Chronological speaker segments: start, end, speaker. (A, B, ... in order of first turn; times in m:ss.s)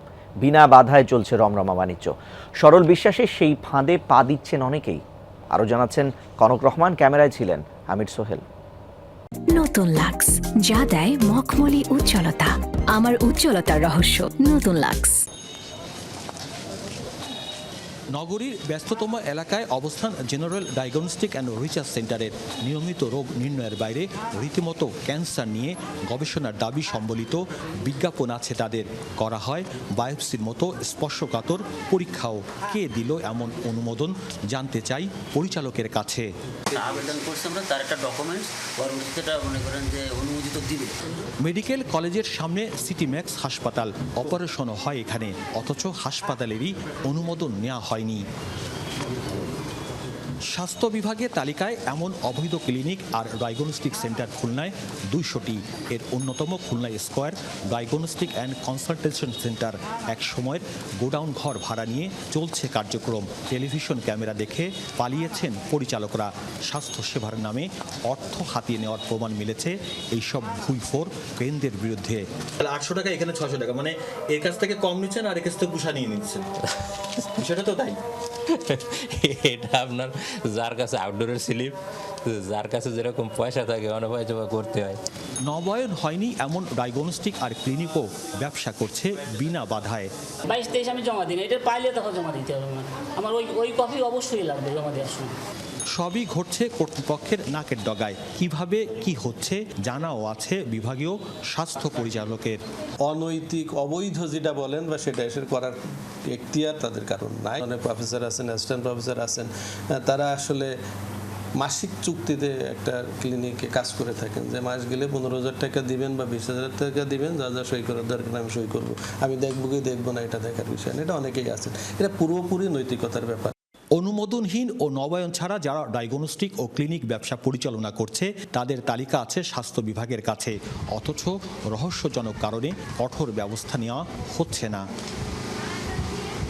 0:00.4-0:05.0 A
0:05.5-0:08.4 A
0:09.6-0:15.2 B
0:18.1-0:36.3 C
0:36.7-0:41.0 D
0:41.4-0:48.2 C
0:50.5-1:16.5 C
1:17.4-1:18.0 C
1:18.7-1:25.0 E
1:25.4-1:30.1 C
1:30.5-1:35.3 F
1:35.9-1:42.6 C
1:43.0-1:50.7 G
1:51.6-2:03.5 G
2:04.0-2:14.8 C